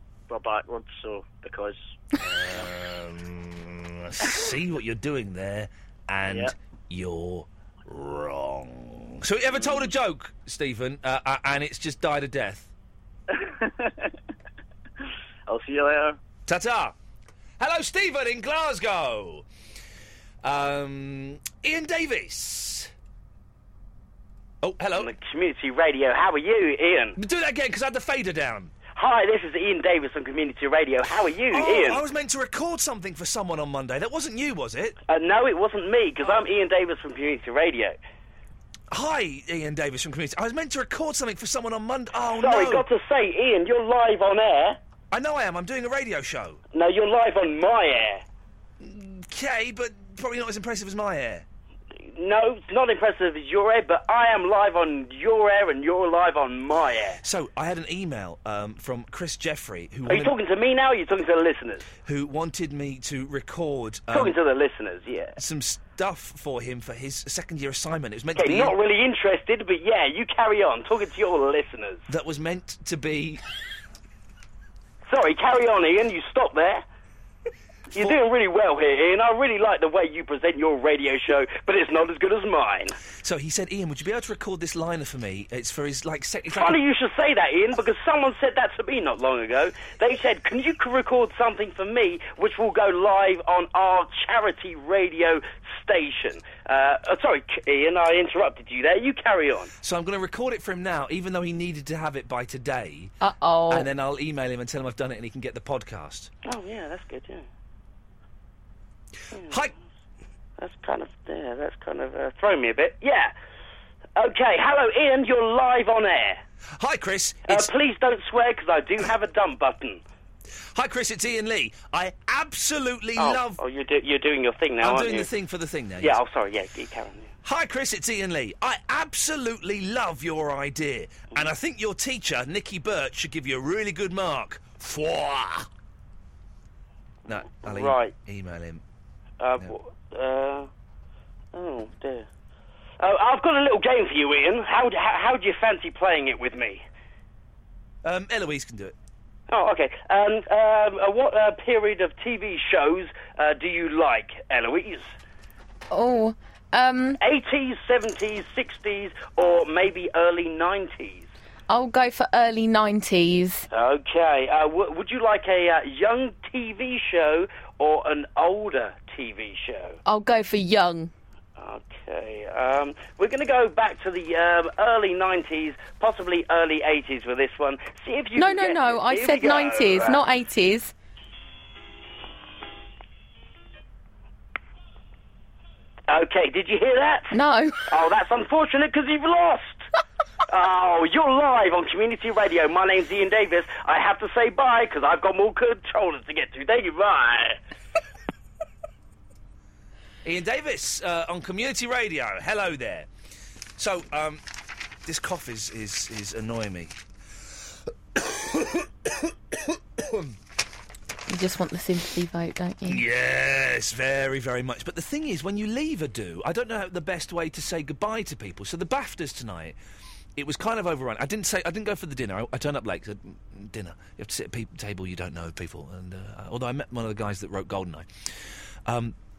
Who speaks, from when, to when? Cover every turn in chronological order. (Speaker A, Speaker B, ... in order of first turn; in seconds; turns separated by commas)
Speaker A: 0.3-1.9, Speaker B: 2.2-12.7, Speaker A: 6.3-6.5, Speaker A: 9.5-9.9, Speaker A: 13.3-14.1, Speaker A: 15.5-16.2, Speaker B: 16.5-16.9, Speaker B: 17.6-19.5, Speaker B: 20.4-22.9, Speaker B: 24.6-25.1, Speaker C: 24.9-27.1, Speaker B: 27.1-28.7, Speaker C: 28.9-32.0, Speaker B: 31.4-35.0, Speaker C: 35.1-38.0, Speaker B: 38.9-42.9, Speaker C: 42.3-44.8, Speaker B: 45.1-46.6, Speaker C: 46.7-48.2, Speaker B: 48.8-51.4, Speaker C: 52.1-57.2, Speaker B: 57.2-60.4, Speaker C: 60.1-61.9, Speaker B: 62.0-64.3, Speaker C: 64.1-65.3, Speaker B: 65.4-68.7, Speaker C: 68.3-72.0, Speaker B: 72.1-73.4, Speaker C: 75.0-76.8, Speaker C: 78.0-83.0, Speaker B: 83.1-86.8, Speaker C: 86.5-99.7, Speaker B: 99.8-103.1, Speaker D: 103.2-103.9, Speaker B: 103.7-106.3, Speaker C: 106.4-107.4, Speaker C: 109.3-109.6, Speaker B: 109.4-109.7, Speaker C: 110.6-113.3, Speaker C: 114.2-116.4, Speaker B: 116.8-117.7, Speaker C: 117.5-120.0, Speaker B: 120.7-123.6, Speaker C: 123.2-125.3, Speaker B: 124.8-126.2, Speaker C: 126.0-127.3, Speaker B: 127.4-135.7, Speaker B: 137.3-138.8, Speaker C: 137.6-138.1, Speaker C: 139.4-140.7, Speaker C: 141.5-142.3, Speaker C: 143.0-146.8, Speaker B: 148.0-148.9, Speaker C: 149.5-155.1, Speaker D: 155.9-157.2, Speaker C: 157.2-161.3, Speaker D: 161.7-163.6, Speaker C: 163.7-170.0, Speaker D: 170.0-171.1, Speaker C: 171.6-180.2, Speaker D: 178.4-180.9, Speaker C: 186.1-187.3, Speaker D: 187.3-187.8, Speaker C: 187.8-189.8, Speaker C: 190.5-197.6, Speaker B: 200.2-203.1, Speaker B: 203.8-204.4, Speaker B: 205.1-206.9, Speaker B: 208.2-210.3, Speaker D: 211.3-213.0, Speaker B: 212.8-219.8, Speaker B: 220.3-228.1, Speaker B: 228.8-229.2